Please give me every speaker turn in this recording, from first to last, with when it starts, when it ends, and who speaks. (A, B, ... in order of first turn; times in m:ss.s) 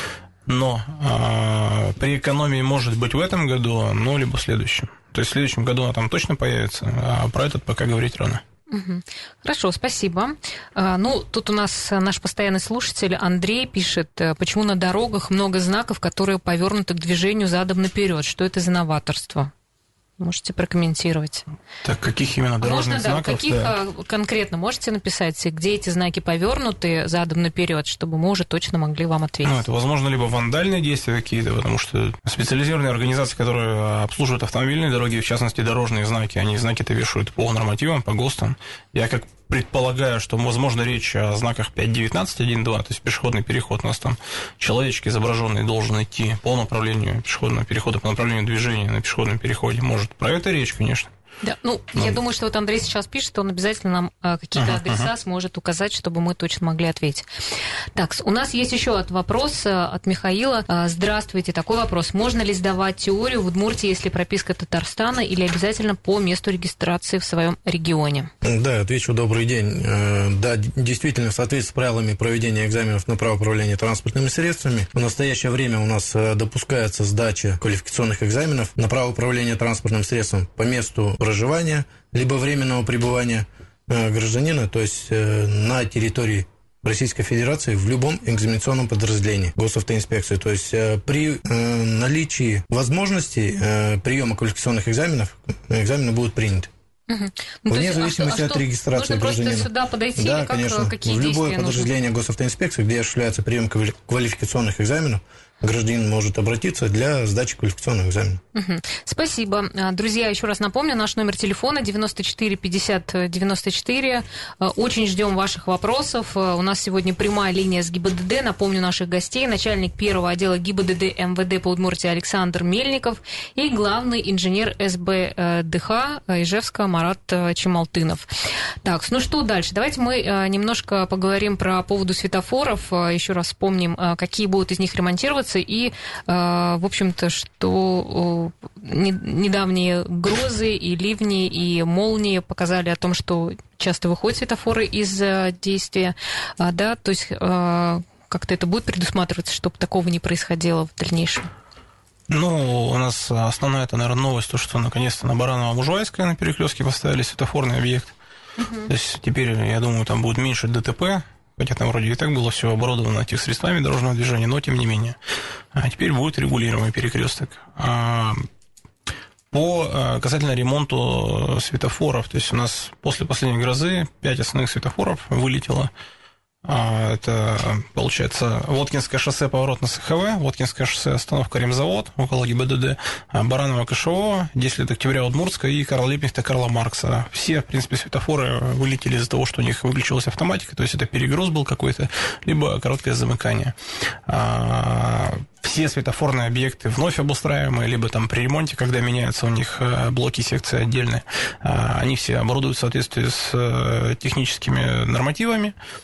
0:00.4-0:08.4 A
0:08.7-0:19.5 B
0:20.2-0:21.4 B
0:21.8-0:23.7 A
0:22.6-0:29.6 B
0:29.4-0:51.1 A
0:51.4-0:57.2 B
0:54.6-0:55.1 A
0:57.9-1:08.3 B
1:08.4-1:36.7 C
1:37.1-1:41.9 B
1:37.7-1:48.4 C
1:48.5-2:08.3 B
2:08.8-2:31.5 B
2:32.3-2:38.1 A
2:38.6-2:38.9 B
2:38.9-2:45.2 A
2:45.7-2:48.4 A
2:49.5-2:55.9 A
2:56.6-3:13.7 A
3:14.2-3:25.8 A